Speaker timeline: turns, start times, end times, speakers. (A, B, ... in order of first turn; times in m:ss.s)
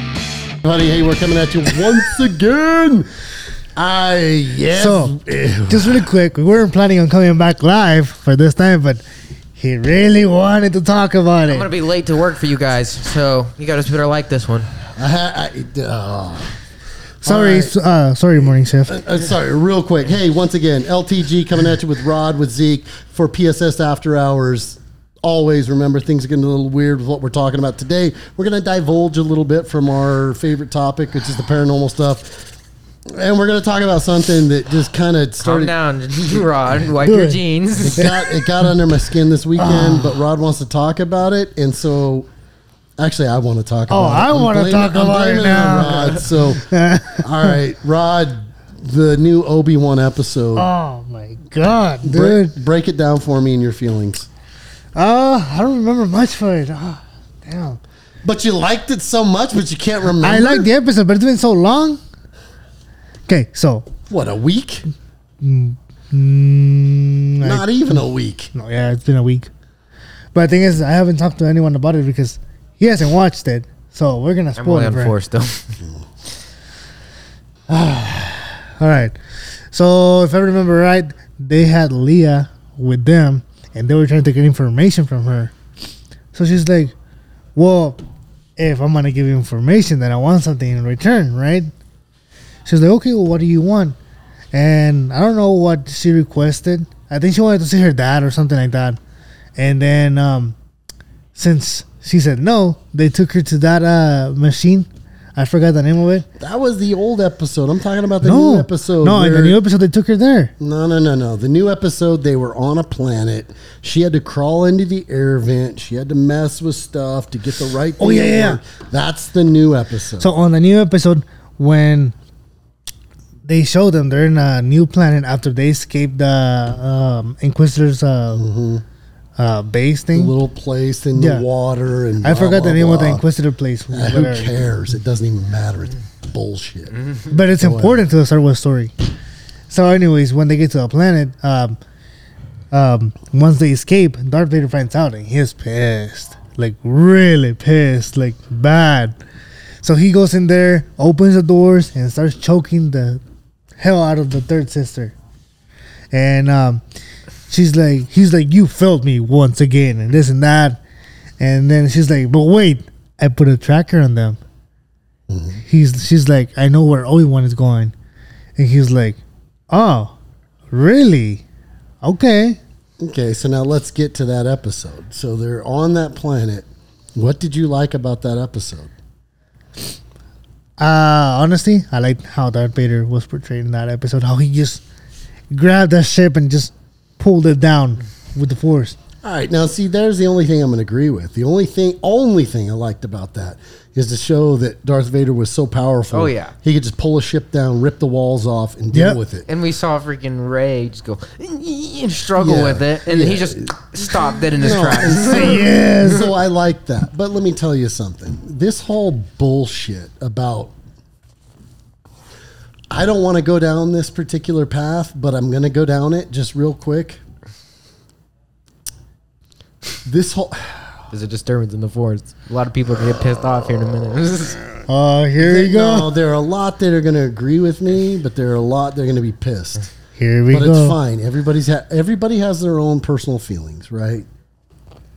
0:00.6-0:03.1 A
0:03.8-0:06.1 A
0:04.7-0:09.0 B
0:09.5-0:11.7 B
0:11.4-0:14.7 C
0:15.0-0:16.5 A
0:17.2-0:19.0 B
0:17.2-0:17.7 A
0:18.4-0:32.4 A
0:33.1-0:35.7 A
0:35.4-0:38.1 C
0:37.0-0:37.4 B
0:37.8-0:42.3 A
0:38.0-0:38.7 B
0:39.6-0:40.2 B
0:43.0-0:46.6 A
0:43.9-0:47.6 B
0:47.2-0:50.7 A
0:50.5-0:52.6 B
0:52.0-0:54.3 A
0:54.9-0:57.8 B
0:58.2-1:00.7 A
1:00.2-1:02.0 B
1:03.3-1:03.9 B
1:04.0-1:04.9 A
1:05.4-1:08.0 B
1:07.4-1:08.5 A
1:08.5-1:09.5 B
1:10.3-1:15.2 B
1:14.6-1:15.8 C
1:17.7-1:19.2 B
1:19.7-1:25.5 B
1:26.3-1:26.9 B
1:27.5-1:28.0 B
1:28.6-1:31.7 B
1:32.6-1:34.0 B
1:34.5-1:39.0 B
1:39.6-1:40.6 B
1:41.3-1:46.2 B
1:46.4-1:49.6 A
1:48.2-1:50.5 B
1:50.6-2:00.3 A
1:58.0-1:58.6 B
2:00.2-2:02.1 B
2:03.4-2:08.5 B
2:08.3-2:08.8 A
2:09.4-2:10.4 B
2:10.1-2:13.2 A
2:11.1-2:11.5 B
2:12.2-2:14.7 B
2:13.9-2:16.9 A
2:17.3-2:18.9 B
2:17.6-2:18.0 A
2:19.7-2:21.8 B
2:22.7-2:29.2 B
2:29.8-2:33.2 B
2:33.8-2:35.1 B
2:36.1-2:36.8 B
2:37.5-2:40.8 B
2:41.4-2:44.4 B
2:45.3-2:45.6 A
2:45.6-2:47.9 B
2:48.6-2:50.1 B
2:50.7-2:51.4 B
2:52.0-2:52.6 B
2:53.0-2:58.9 A
3:00.8-3:04.8 B
3:05.5-3:09.0 B
3:09.2-3:19.4 A
3:16.1-3:16.5 C
3:18.9-3:19.2 B
3:19.4-3:25.6 C
3:22.4-3:23.7 A
3:24.6-3:30.7 A
3:25.2-3:26.3 B
3:32.9-3:37.2 A
3:40.0-3:41.0 A
3:41.1-3:44.6 C
3:44.8-3:46.2 B
3:45.4-3:49.8 A
3:50.2-3:51.0 B
3:50.5-3:54.3 A